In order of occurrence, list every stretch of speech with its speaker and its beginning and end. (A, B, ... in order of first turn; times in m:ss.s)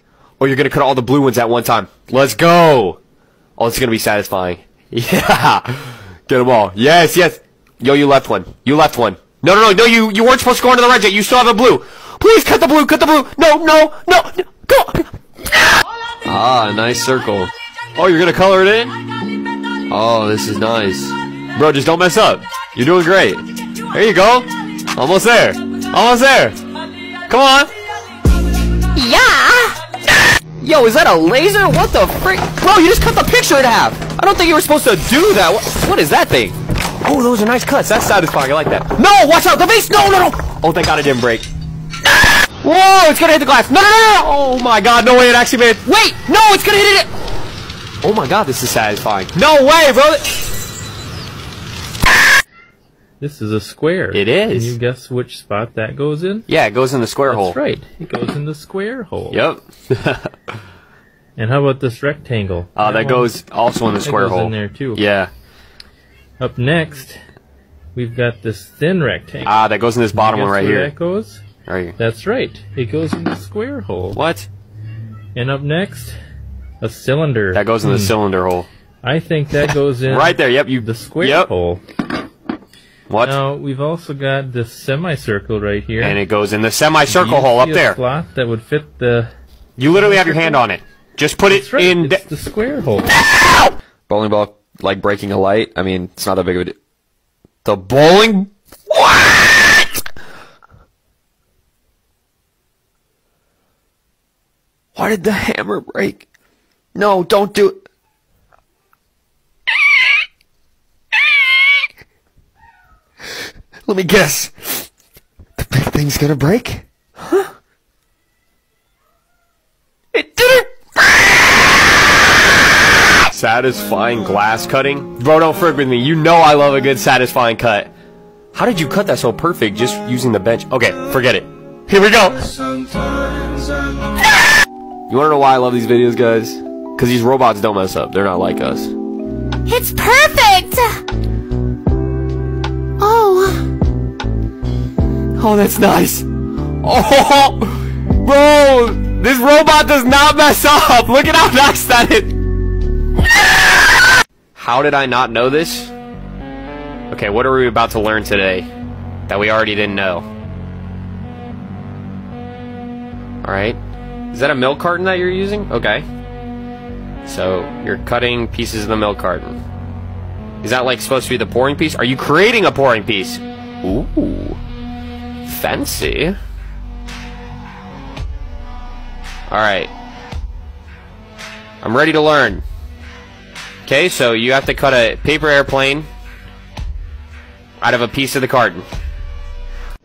0:00.4-0:03.0 A
0:03.6-0:15.1 A
0:16.2-0:18.9 A
0:19.9-0:26.6 A
0:27.3-0:27.7 A
0:28.9-0:29.8 B
0:30.6-0:41.4 A
0:42.6-0:47.1 A
0:48.0-0:50.4 A
0:53.2-0:56.5 C
0:54.1-0:54.7 A
0:56.5-0:57.6 A
0:57.3-0:59.4 C
0:59.3-1:00.3 A
1:01.4-1:03.3 C
1:02.8-1:05.3 A
1:04.0-1:05.0 C
1:06.4-1:07.2 C
1:07.9-1:09.6 C
1:09.4-1:10.9 A
1:10.1-1:11.4 C
1:11.7-1:12.0 A
1:12.0-1:14.2 C
1:14.1-1:14.5 A
1:15.3-1:16.2 C
1:16.8-1:18.2 C
1:17.5-1:18.7 A
1:19.0-1:21.8 C
1:20.1-1:21.5 A
1:23.1-1:23.4 A
1:23.2-1:26.2 C
1:26.0-1:28.0 A
1:27.1-1:29.3 C
1:29.8-1:32.2 A
1:29.9-1:30.6 C
1:31.5-1:33.1 C
1:33.1-1:36.8 A
1:37.6-1:40.0 A
1:44.9-1:46.2 A
1:46.9-1:47.8 A
1:53.9-1:54.9 A
1:55.6-1:57.4 A
2:00.1-2:01.8 A
2:03.1-2:07.9 A
2:08.5-2:12.7 A
2:15.1-2:18.9 A
2:19.7-2:21.0 B
2:23.0-2:23.6 B
2:25.4-2:26.3 A
2:26.8-2:32.3 A
2:34.6-2:35.9 A
2:37.1-2:38.7 A
2:39.3-2:40.3 A
2:43.4-2:43.8 A
2:44.3-2:46.1 A
2:47.2-2:49.6 A
2:50.6-2:54.6 A
2:55.4-2:56.4 A
2:59.5-2:59.9 A
3:01.8-3:02.6 A
3:03.8-3:06.1 A
3:07.8-3:08.8 A